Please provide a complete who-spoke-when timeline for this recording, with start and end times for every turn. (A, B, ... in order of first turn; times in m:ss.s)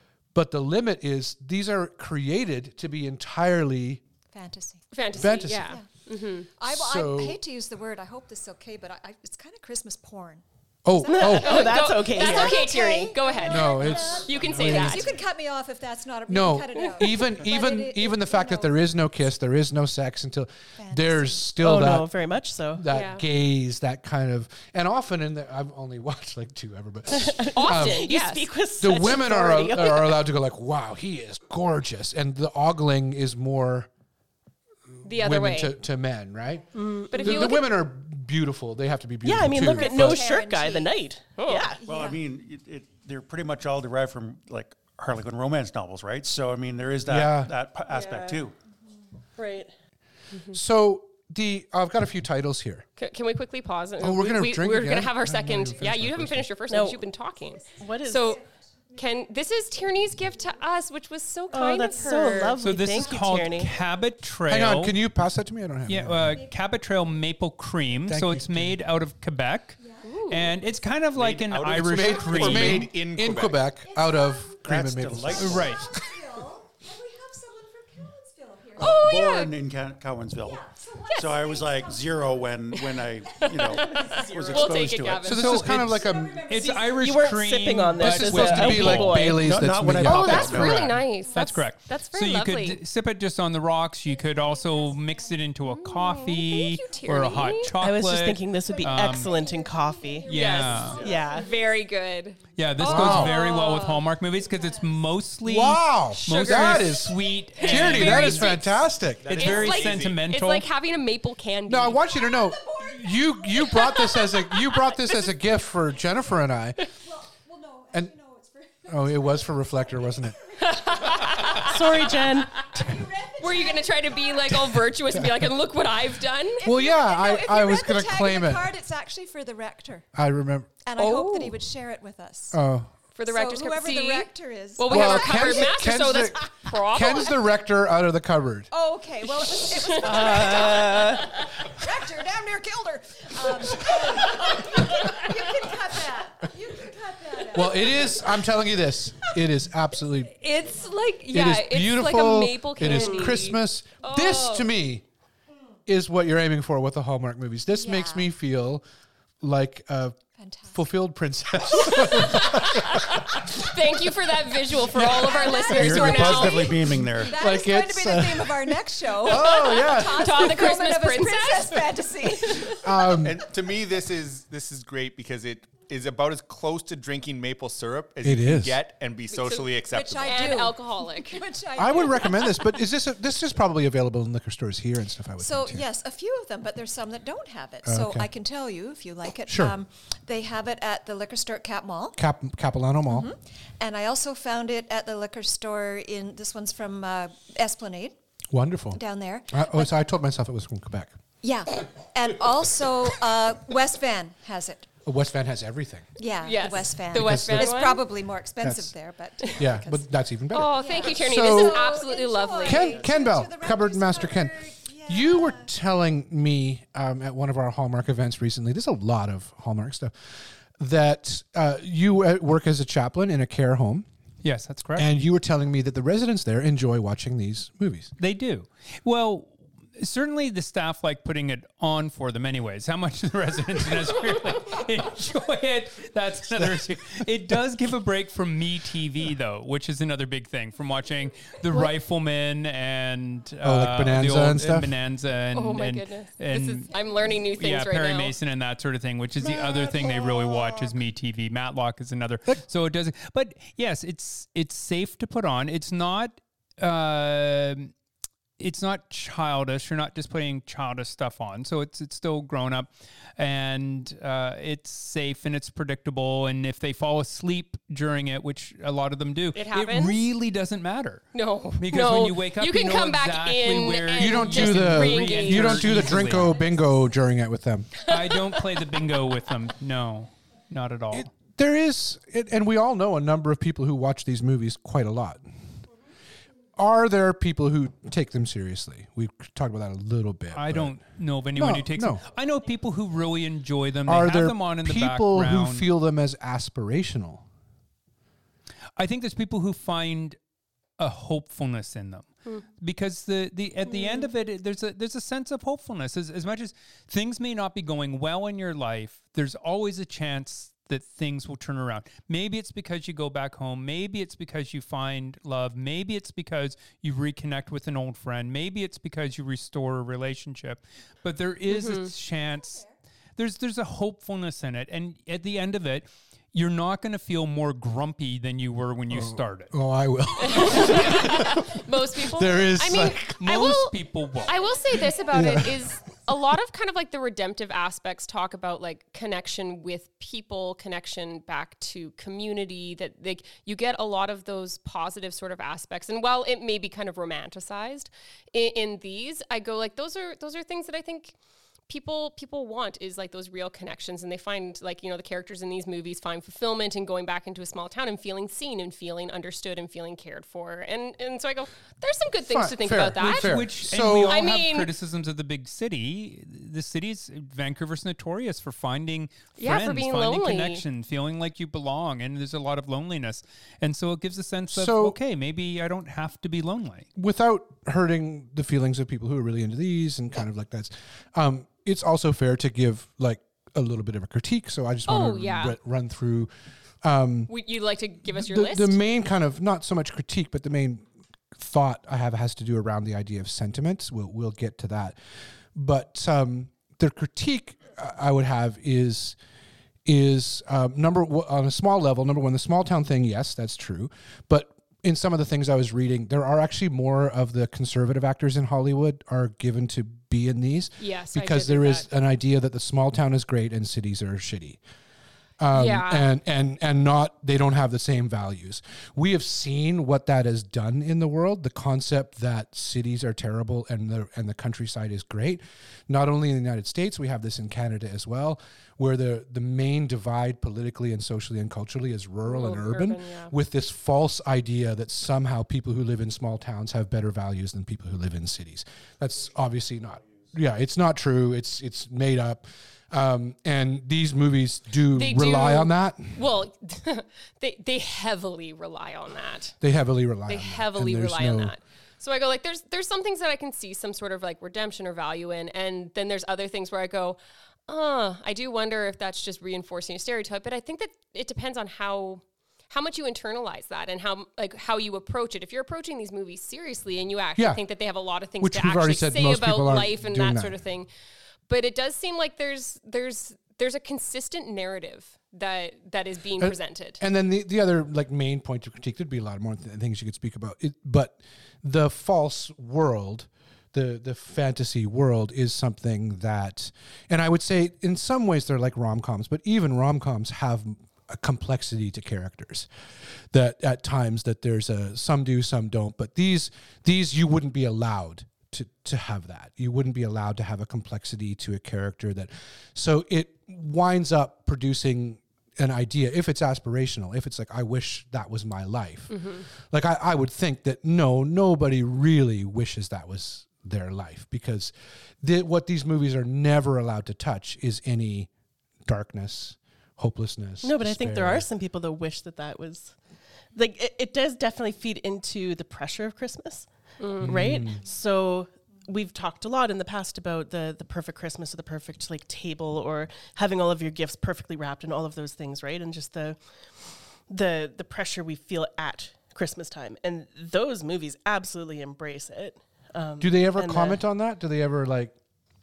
0:00.3-0:04.0 A
0:04.3-0:05.9 B
0:04.9-0:06.5 C
0:05.1-0:05.8 A
0:06.6-0:19.0 B
0:06.6-0:07.4 A
0:10.8-0:11.7 A
0:11.1-0:13.2 D
0:11.3-0:15.1 C
0:13.4-0:15.2 A
0:16.3-0:22.1 A
0:20.8-0:21.6 B
0:21.6-0:22.8 D
0:22.7-0:28.1 A
0:22.9-0:23.2 C
0:27.1-0:30.2 D
0:27.5-0:28.5 C
0:28.8-0:33.9 A
0:35.0-0:35.7 C
0:35.0-0:40.2 A
0:36.7-0:37.6 D
0:37.1-0:37.7 C
0:39.2-0:41.8 D
0:39.6-0:41.0 B
0:41.4-0:41.7 C
0:41.8-0:42.3 B
0:41.8-0:48.5 E
0:47.1-0:47.5 A
0:47.9-0:48.5 D
0:49.4-0:49.7 D
0:50.5-0:52.8 A
0:53.0-0:58.4 C
0:54.0-0:56.5 A
0:56.7-0:57.0 D
0:57.6-0:59.0 B
0:57.8-0:58.4 D
0:58.9-1:02.6 C
1:01.5-1:03.7 D
1:02.6-1:05.0 F
1:04.5-1:06.4 A
1:05.9-1:12.9 F
1:08.0-1:08.8 A
1:09.8-1:10.9 B
1:10.0-1:10.6 C
1:11.1-1:13.7 G
1:11.7-1:15.8 A
1:13.8-1:14.8 B
1:14.6-1:15.9 E
1:15.3-1:15.8 F
1:15.5-1:19.4 B
1:18.8-1:19.5 C
1:18.8-1:25.4 E
1:20.4-1:24.5 B
1:23.4-1:25.5 C
1:24.0-1:24.8 D
1:25.2-1:26.5 A
1:25.3-1:29.3 F
1:25.6-1:27.4 B
1:26.5-1:29.6 D
1:28.0-1:30.9 A
1:29.2-1:30.9 E
1:30.0-1:32.8 C
1:30.3-1:39.3 F
1:31.3-1:31.6 B
1:34.1-1:35.4 B
1:35.6-1:37.7 C
1:37.8-1:41.5 D
1:38.6-1:41.8 B
1:40.3-1:44.0 C
1:40.3-1:41.0 F
1:42.6-1:48.6 F
1:42.8-1:43.4 A
1:43.1-1:45.0 B
1:45.4-1:49.4 A
1:46.1-1:47.0 C
1:47.5-1:52.0 C
1:49.2-1:50.2 G
1:49.3-1:50.7 F
1:51.7-1:56.9 A
1:52.1-1:54.3 B
1:53.7-1:55.2 C
1:57.0-2:01.9 B
1:58.8-2:00.4 A
2:00.6-2:02.1 C
2:01.6-2:02.7 D
2:02.5-2:04.7 B
2:03.4-2:06.6 C
2:05.0-2:05.5 A
2:06.6-2:10.1 B
2:06.6-2:08.7 A
2:10.1-2:10.7 A
2:10.8-2:12.6 B
2:11.0-2:11.6 C
2:12.5-2:12.9 A
2:13.1-2:17.4 C
2:13.3-2:15.7 B
2:14.9-2:18.7 A
2:18.7-2:28.4 B
2:19.8-2:20.6 C
2:20.0-2:21.1 E
2:24.0-2:24.5 A
2:27.5-2:30.3 A
2:30.4-2:34.7 C
2:30.4-2:31.0 B
2:31.3-2:35.0 A
2:32.8-2:33.2 B
2:35.9-2:38.8 A
2:37.7-2:38.3 B
2:39.4-2:40.2 A
2:40.4-2:40.9 B
2:40.7-2:43.5 A
2:41.8-2:46.8 C
2:42.0-2:42.6 B
2:44.9-2:46.7 A
2:45.0-2:53.3 B
2:45.7-2:47.4 E
2:47.2-2:50.8 A
2:49.3-2:52.8 C
2:52.6-2:53.5 A
2:53.2-3:00.6 G
2:58.2-2:58.8 A
2:59.3-3:01.4 C
2:59.9-3:02.8 B
3:01.8-3:05.9 A
3:05.4-3:12.2 B
3:07.8-3:08.3 A
3:09.5-3:09.8 A
3:12.2-3:13.3 A
3:13.1-3:18.2 B
3:18.5-3:19.0 A
3:18.9-3:19.9 B
3:19.5-3:21.1 A
3:21.4-3:24.9 B
3:25.0-3:26.1 A
3:26.2-3:35.7 B
3:26.4-3:28.0 C
3:27.1-3:27.9 A
3:28.6-3:28.9 A
3:29.5-3:32.0 A
3:30.5-3:33.0 C
3:32.6-3:44.1 A
3:44.4-3:45.1 F
3:45.0-3:48.1 A
3:48.2-4:17.9 F
3:56.5-3:57.5 A
4:03.6-4:05.0 A
4:05.5-4:08.3 C
4:18.6-4:31.2 F
4:29.5-4:30.2 C
4:31.3-4:36.3 C
4:31.8-4:36.6 F
4:34.2-4:38.0 A
4:38.0-4:41.3 F
4:38.1-4:38.6 C
4:41.1-4:45.4 A
4:46.8-4:51.0 A
4:50.5-4:55.9 F
4:51.5-4:52.2 A
4:54.0-4:57.4 A
4:59.0-5:00.4 F
5:01.0-5:22.8 F
5:03.9-5:04.3 C
5:21.7-5:22.1 C
5:23.4-5:29.7 F
5:29.1-5:33.5 A
5:30.4-5:33.9 C
5:33.4-5:34.6 F
5:34.4-5:51.3 C
5:35.3-5:35.8 A
5:51.9-6:03.6 C
6:02.4-6:04.4 A
6:03.2-6:17.1 F
6:04.2-6:04.9 C
6:09.6-6:10.8 C
6:14.7-6:15.2 A
6:17.2-6:26.5 A
6:25.1-6:25.8 C
6:27.0-6:27.5 A
6:27.5-6:29.0 C
6:28.3-6:35.2 A
6:35.7-6:39.4 A
6:40.0-6:54.8 A
6:51.0-6:52.1 C
6:55.6-7:26.4 A
6:55.7-6:56.3 C
7:12.4-7:13.5 C
7:25.1-7:29.8 C
7:29.8-7:31.8 A
7:30.5-7:51.1 C
7:48.6-7:50.8 A
7:51.7-7:57.2 C
7:56.6-8:12.9 A
8:13.5-8:38.5 A
8:29.3-8:29.6 C
8:39.0-8:41.7 A
8:40.8-8:43.2 D
8:43.7-8:56.6 D
8:47.2-8:47.6 C
8:47.4-8:48.0 A
8:57.5-9:04.2 D
9:03.4-9:05.4 A